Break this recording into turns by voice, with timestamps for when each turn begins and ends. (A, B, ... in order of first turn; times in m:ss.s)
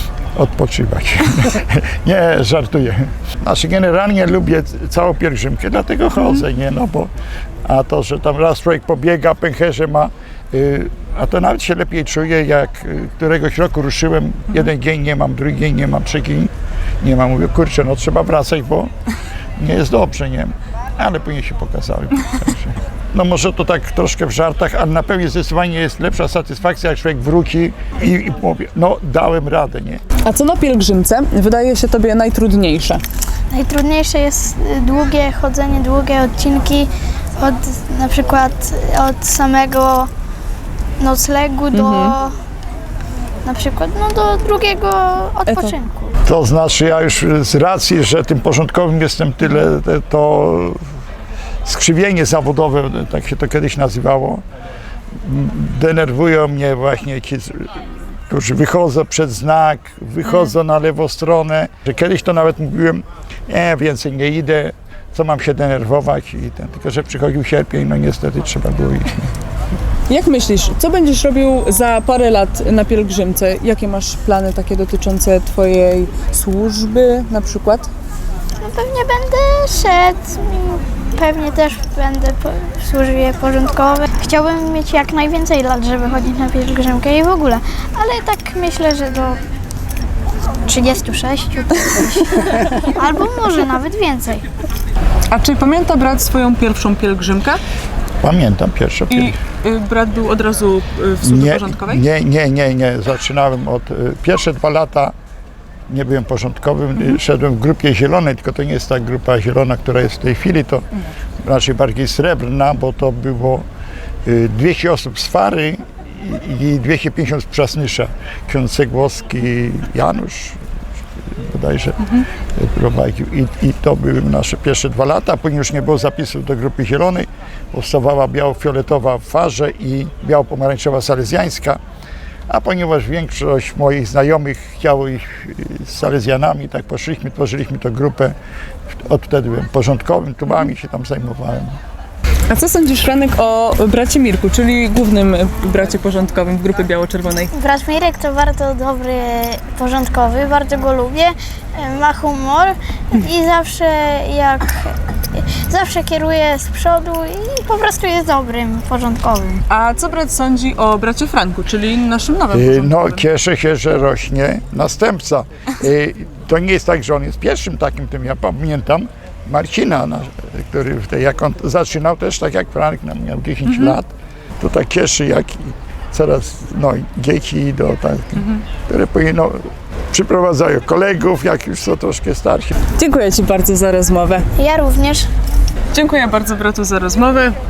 0:00.3-0:07.1 A
0:07.6-0:18.9 A
0:19.6-0:30.0 A
0:30.2-0:33.0 B
0:33.5-0:40.1 C
0:41.0-0:42.4 C
0:41.7-0:42.2 B
0:43.4-0:46.1 C
0:45.5-0:45.8 B
0:46.2-0:50.8 A
0:51.6-0:54.4 A
0:55.2-1:09.3 A
1:10.1-1:17.9 B
1:18.6-1:29.4 C
1:30.7-1:34.4 C
1:35.3-1:37.6 B
1:38.2-1:39.4 A
1:39.1-1:42.0 B
1:41.2-1:45.1 A
1:45.9-1:50.9 A
1:51.4-1:53.6 A
1:54.2-2:00.6 A
2:01.2-2:11.8 A
2:12.5-2:18.4 A
2:18.9-2:21.8 A
2:22.5-2:27.5 B
2:27.5-2:39.6 C
2:39.7-2:43.2 B
2:42.5-3:02.7 A
2:53.6-2:54.0 B
2:58.4-2:58.6 B
3:02.9-3:04.5 B
3:04.6-3:05.3 C
3:05.9-3:07.6 B